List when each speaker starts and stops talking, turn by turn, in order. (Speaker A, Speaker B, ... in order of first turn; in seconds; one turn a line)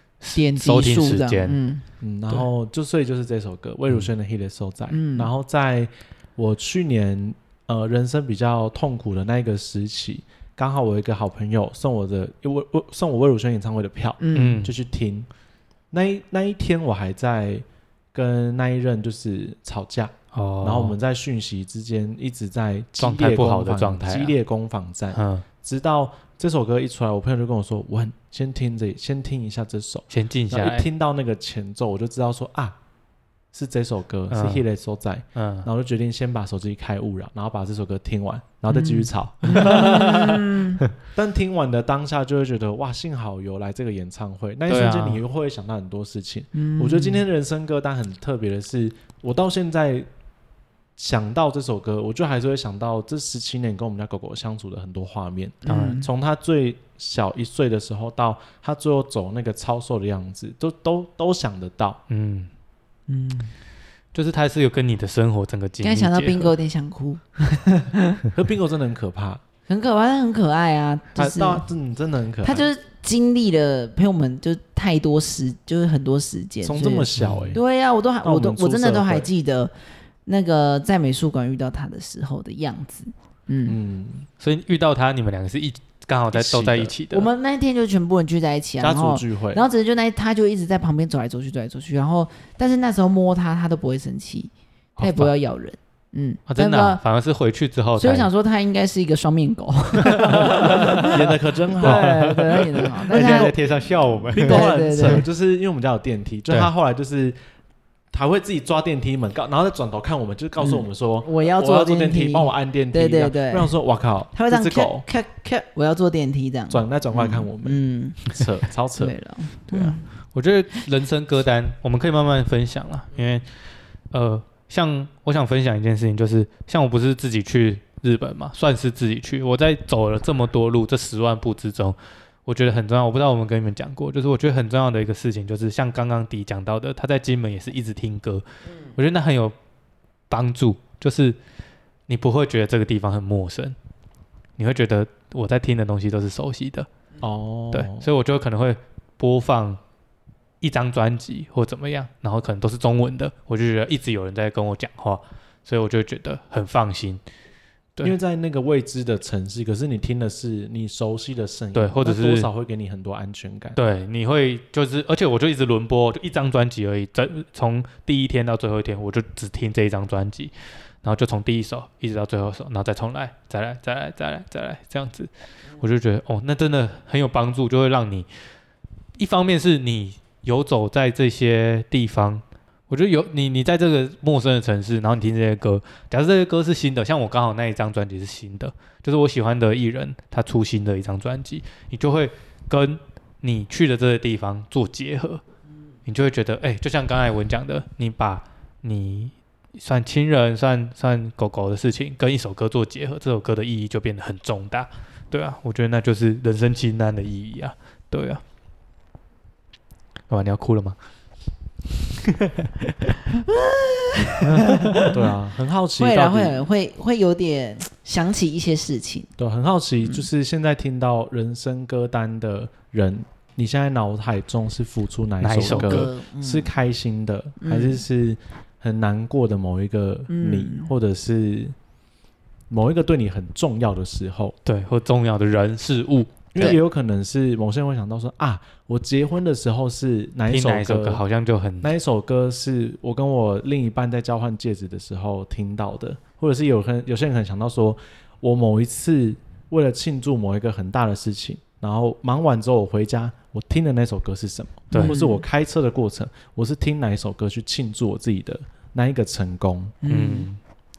Speaker A: 0.2-1.6
Speaker B: 0.3-1.8
Speaker C: 2.0-15.3
Speaker B: 4.9-5.3
Speaker B: 14.2-14.7
Speaker A: 14.3-14.7
Speaker C: 15.9-32.8
Speaker A: 20.3-20.9
Speaker A: 23.0-24.3
Speaker A: 25.1-25.4
Speaker A: 30.1-30.9
Speaker C: 33.5-40.3
Speaker A: 34.3-34.6
Speaker A: 35.4-35.7
Speaker B: 38.7-40.8
Speaker A: 39.5-40.4
Speaker C: 41.0-50.1
Speaker A: 44.7-45.2
Speaker B: 46.5-47.2
Speaker C: 51.0-62.0
Speaker B: 55.6-56.1
Speaker A: 55.7-56.0
Speaker A: 62.1-62.5
Speaker B: 63.1-63.5
Speaker A: 64.1-66.5
Speaker B: 65.8-68.2
Speaker C: 68.3-69.4
Speaker B: 69.7-71.6
Speaker C: 71.2-72.7
Speaker B: 72.4-79.7
Speaker C: 76.6-77.6
Speaker A: 77.2-77.5
Speaker C: 78.2-79.3
Speaker B: 80.2-83.8
Speaker C: 83.6-84.3
Speaker A: 84.4-87.3
Speaker C: 86.3-86.9
Speaker B: 87.1-97.0
Speaker C: 88.8-89.6
Speaker A: 95.0-95.3
Speaker A: 96.5-98.3
Speaker B: 98.0-103.5
Speaker A: 100.0-101.2
Speaker C: 100.6-102.3
Speaker A: 101.8-105.2
Speaker C: 103.1-103.6
Speaker C: 104.3-107.3
Speaker B: 104.3-105.2
Speaker C: 108.1-115.0
Speaker B: 110.6-113.7
Speaker B: 114.3-118.4
Speaker C: 116.7-119.1
Speaker B: 119.0-120.0
Speaker A: 119.7-123.5
Speaker A: 124.1-138.4
Speaker A: 138.9-139.5
Speaker A: 140.3-141.4
Speaker A: 142.1-143.8
Speaker A: 144.6-146.9
Speaker C: 147.2-148.1
Speaker A: 147.7-149.8
Speaker A: 150.6-157.2
Speaker C: 158.0-163.8
Speaker A: 161.7-162.5
Speaker A: 163.8-170.5
Speaker A: 171.0-178.3
Speaker A: 179.2-195.4
Speaker A: 196.1-208.4
Speaker A: 210.3-210.9
Speaker A: 212.1-213.1
Speaker B: 213.3-215.1
Speaker C: 215.0-216.7
Speaker B: 216.0-219.3
Speaker C: 219.4-231.7
Speaker A: 225.4-226.1
Speaker B: 225.6-226.7
Speaker B: 227.6-228.0
Speaker B: 230.3-230.9
Speaker C: 232.7-234.6
Speaker A: 234.6-236.8
Speaker C: 236.5-241.2
Speaker A: 240.5-241.9
Speaker C: 241.8-259.9
Speaker A: 254.9-255.2
Speaker B: 254.9-255.4
Speaker B: 260.0-260.5
Speaker A: 260.1-260.6